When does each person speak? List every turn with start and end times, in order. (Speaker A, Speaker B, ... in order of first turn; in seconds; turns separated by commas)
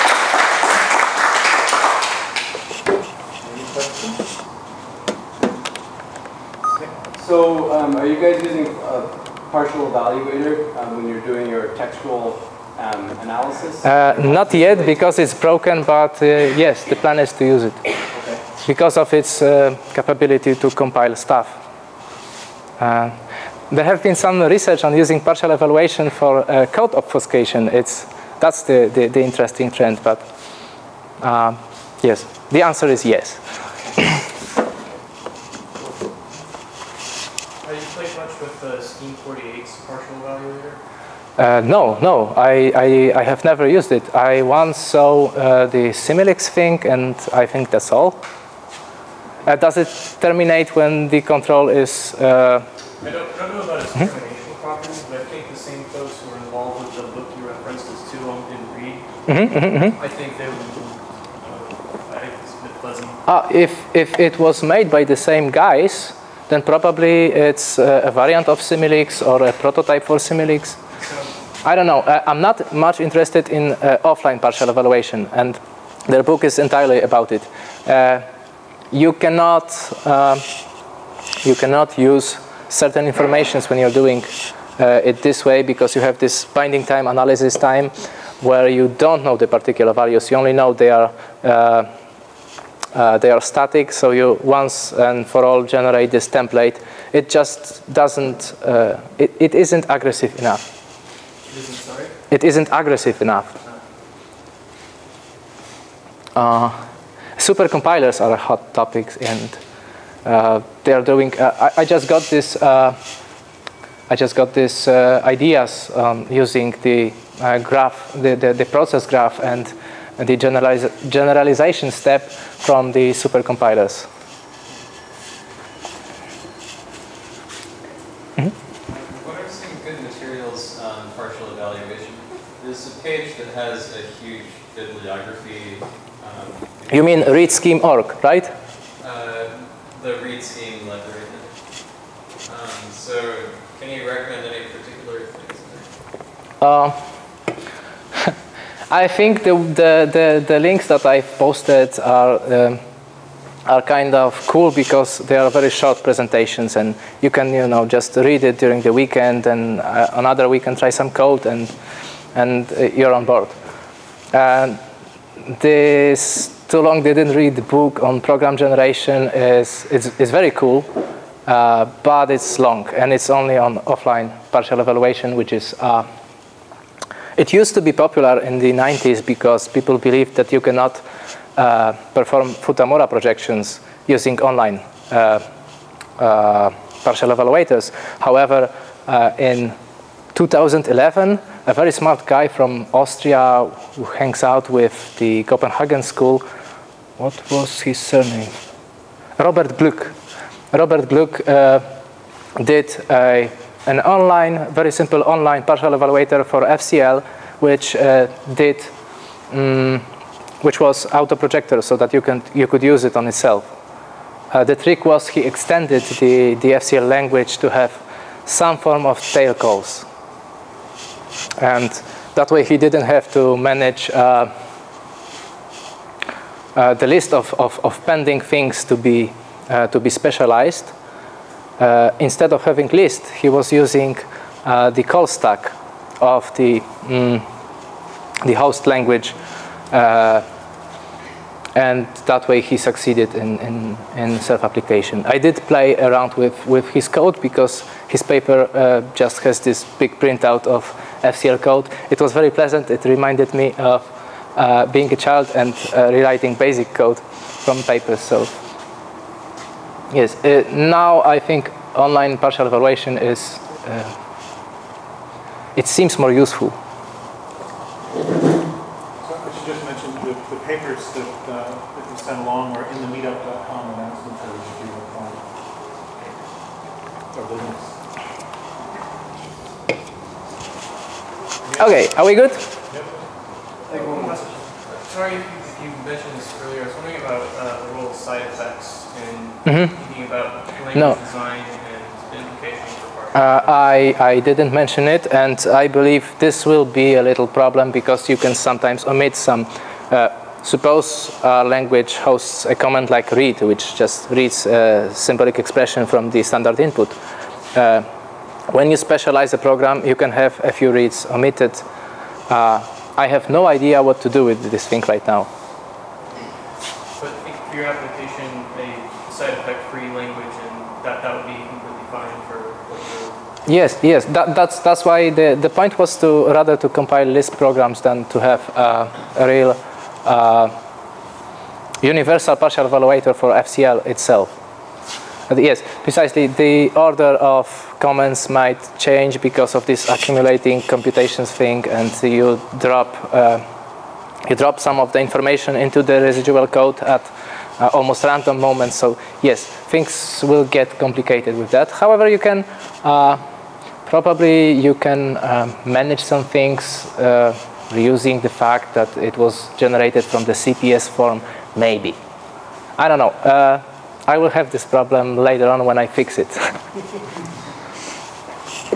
Speaker A: 3.4-4.2, Speaker B: 7.1-14.9, Speaker C: 13.8-17.8, Speaker B: 18.1-18.4, Speaker C: 18.6-21.6, Speaker C: 22.8-30.2, Speaker C: 31.2-33.4, Speaker D: 37.6-40.8, Speaker C: 41.4-48.2, Speaker C: 49.4-52.7, Speaker D: 53.0-59.0, Speaker C: 59.3-60.0, Speaker D: 59.9-63.2, Speaker C: 63.2-70.8, Speaker D: 71.0-71.3, Speaker C: 71.6-78.2, Speaker C: 78.9-80.4, Speaker C: 81.4-91.9, Speaker C: 92.9-100.6, Speaker D: 101.5-102.2, Speaker C: 102.3-103.5, Speaker C: 106.3-106.8, Speaker C: 107.4-109.6, Speaker C: 110.2-113.0, Speaker C: 114.1-124.1, Speaker E: 128.9-137.6, Speaker C: 136.9-138.5, Speaker E: 139.0-141.5, Speaker E: 142.4-145.9, Speaker C: 146.6-147.0, Speaker C: 148.9-152.8, Speaker C: 153.7-161.7, Speaker C: 162.3-163.6, Speaker C: 164.3-164.8, Speaker C: 165.4-170.9, Speaker C: 171.4-176.1, Speaker C: 177.4-181.0, Speaker C: 181.6-185.4, Speaker C: 186.2-189.8, Speaker C: 190.3-196.4, Speaker C: 197.2-198.5, Speaker C: 199.4-200.1, Speaker C: 200.7-201.8, Speaker C: 202.6-208.9, Speaker C: 209.5-210.0, Speaker C: 210.6-213.7, Speaker C: 214.5-220.1, Speaker C: 221.6-224.5, Speaker C: 226.7-230.9, Speaker C: 231.8-237.4, Speaker C: 238.4-239.3, Speaker C: 239.9-240.4, Speaker C: 241.7-258.6, Speaker C: 260.1-264.1, Speaker C: 265.7-266.8, Speaker A: 269.2-275.4, Speaker A: 277.3-277.9, Speaker D: 281.6-282.1, Speaker C: 281.8-282.6, Speaker A: 282.9-283.2, Speaker D: 283.9-293.7, Speaker B: 283.9-284.3, Speaker C: 289.6-289.9, Speaker C: 293.3-307.2, Speaker C: 307.7-308.1, Speaker C: 308.7-311.8, Speaker C: 312.5-315.5, Speaker D: 317.2-323.4, Speaker C: 323.6-330.7, Speaker C: 332.0-334.5, Speaker C: 335.5-343.6, Speaker C: 344.4-353.4, Speaker C: 354.1-362.2, Speaker C: 363.0-366.8